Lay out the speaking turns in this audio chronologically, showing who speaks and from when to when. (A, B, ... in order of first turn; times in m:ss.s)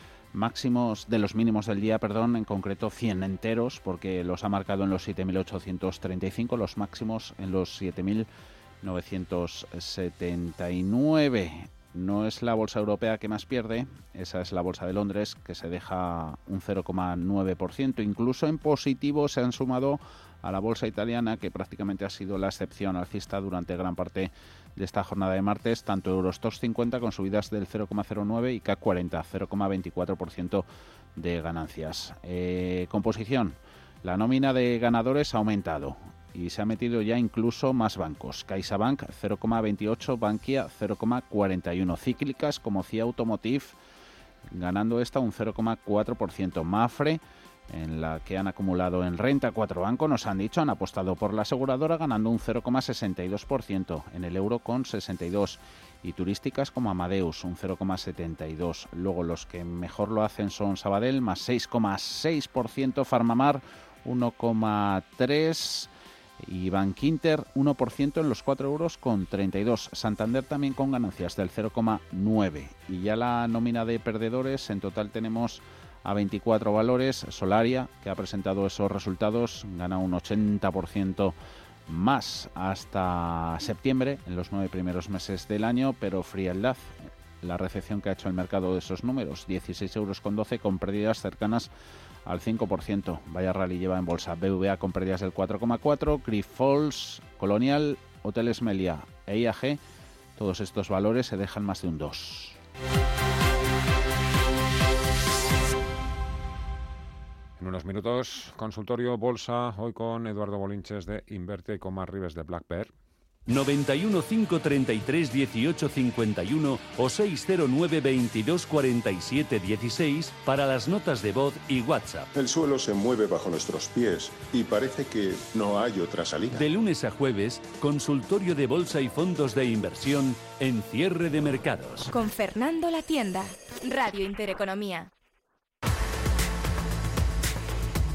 0:00.3-0:08.3 A
0:08.8-0:43.8 A
0:44.5-1:21.4 A
1:21.9-1:31.7 A
1:32.2-1:39.8 A
1:40.4-1:42.6 A
1:47.6-1:52.9 B
1:53.5-2:02.3 C
2:02.4-2:06.6 D
2:06.5-2:12.1 C
2:12.1-2:15.1 E